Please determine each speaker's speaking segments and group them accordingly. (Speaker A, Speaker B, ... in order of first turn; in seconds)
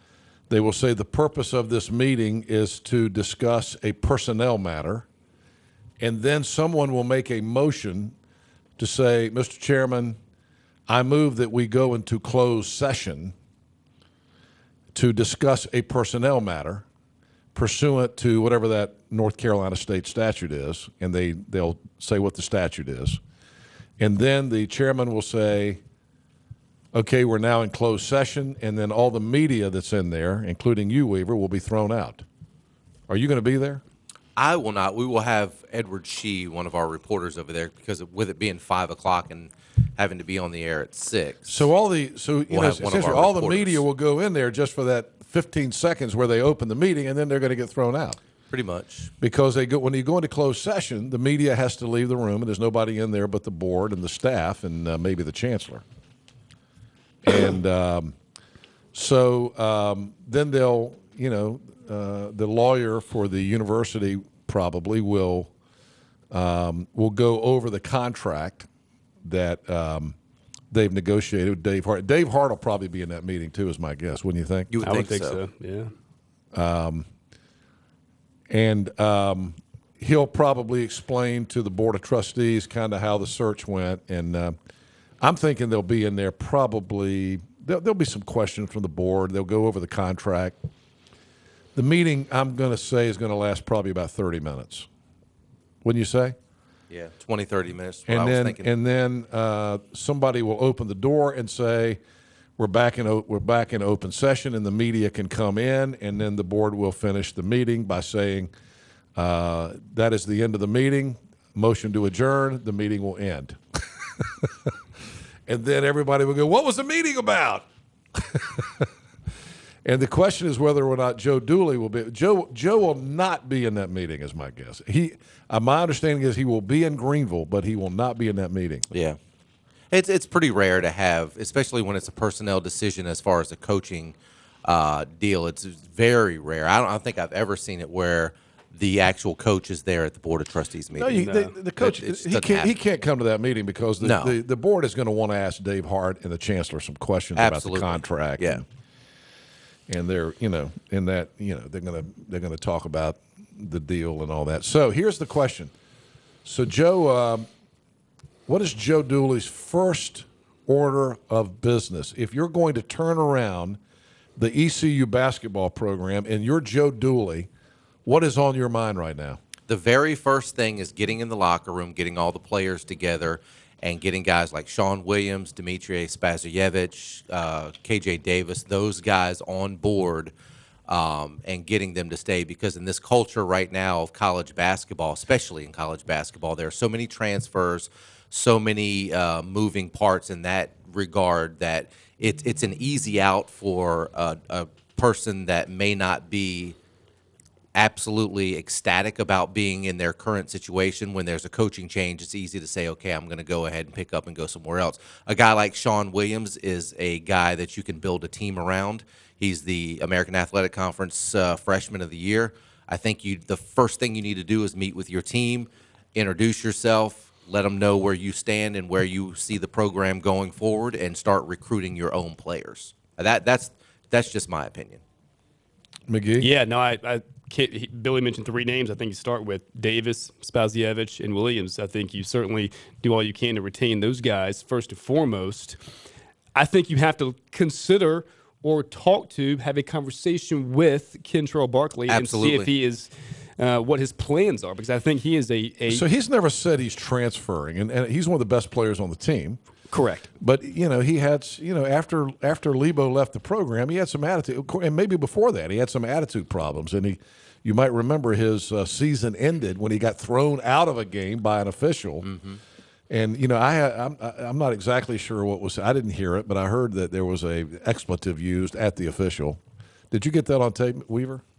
Speaker A: 0.5-5.1, 6.0-8.2, 8.8-10.2, 10.9-13.3, 14.9-16.9, 17.5-23.2, 24.0-25.8, 26.9-32.2, 33.1-33.8, 41.5-48.2, 49.2-55.8, 57.2-58.1, 58.9-65.5, 66.3-68.7, 69.2-70.1, 70.7-74.8, 76.5-77.1, 78.5-84.5, 85.2-90.5, 91.7-94.9, 95.8-96.3, 98.1-102.0, 102.6-108.5, 109.2-114.7, 115.5-118.9, 119.8-128.9, 140.9-148.6, 149.9-155.7, 156.4-157.5, 158.5-163.8, 164.3-167.5, 168.0-169.4, 226.1-226.5, 245.9-249.6, 250.4-262.3, 263.1-269.6, 270.1-271.4
Speaker B: 34.4-41.7, 42.5-43.8, 48.5-49.1, 74.7-75.4, 96.9-98.7, 128.9-129.2, 129.9-141.2, 141.8-142.7, 144.0-144.3, 147.3-148.6, 169.7-180.3, 180.9-196.8, 197.8-225.0, 242.1-242.7, 262.2-262.6
Speaker C: 74.8-75.9, 141.2-141.5, 226.4-235.8, 236.6-246.0, 249.9-250.3